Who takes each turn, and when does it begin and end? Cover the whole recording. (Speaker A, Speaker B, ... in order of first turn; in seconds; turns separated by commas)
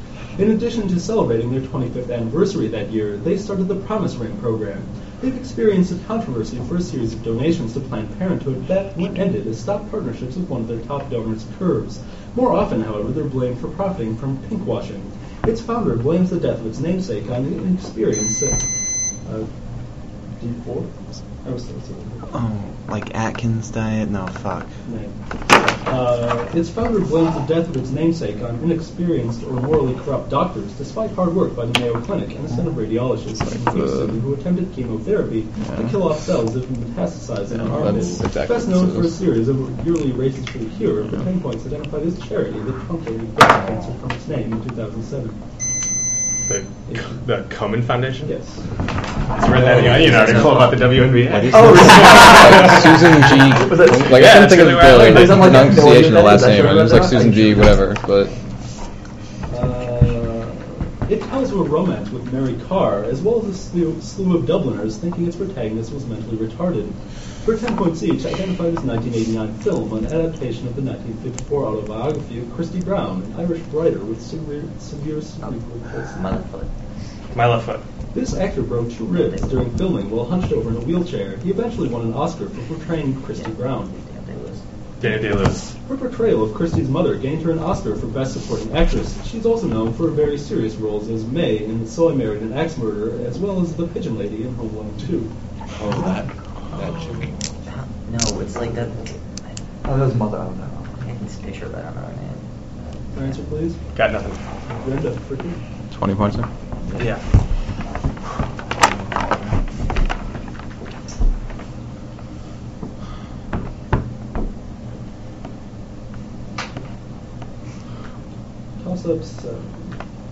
Speaker A: 0.4-18.6, Speaker A: 20.3-22.3, Speaker B: 22.3-24.7, Speaker A: 24.9-25.1, Speaker A: 25.8-45.4, Speaker C: 33.4-34.2, Speaker C: 35.7-35.9, Speaker C: 37.5-39.2, Speaker D: 37.7-38.2, Speaker E: 46.5-48.3, Speaker A: 46.9-47.1, Speaker A: 48.2-48.6, Speaker E: 49.3-53.0, Speaker F: 49.6-50.8, Speaker D: 51.3-51.9, Speaker F: 51.5-57.9, Speaker C: 51.7-58.3, Speaker E: 53.9-55.7, Speaker A: 59.5-76.3, Speaker F: 75.4-76.7, Speaker E: 77.3-77.8, Speaker A: 78.1-83.9, Speaker F: 79.1-79.7, Speaker F: 83.3-84.6, Speaker E: 85.0-85.7, Speaker A: 85.9-95.3, Speaker D: 95.8-96.1, Speaker D: 96.8-97.3, Speaker F: 97.7-103.4, Speaker A: 103.1-103.8, Speaker E: 103.9-104.4, Speaker A: 104.8-105.6, Speaker C: 105.9-106.5, Speaker F: 106.8-107.1, Speaker E: 107.0-107.2, Speaker A: 118.8-119.9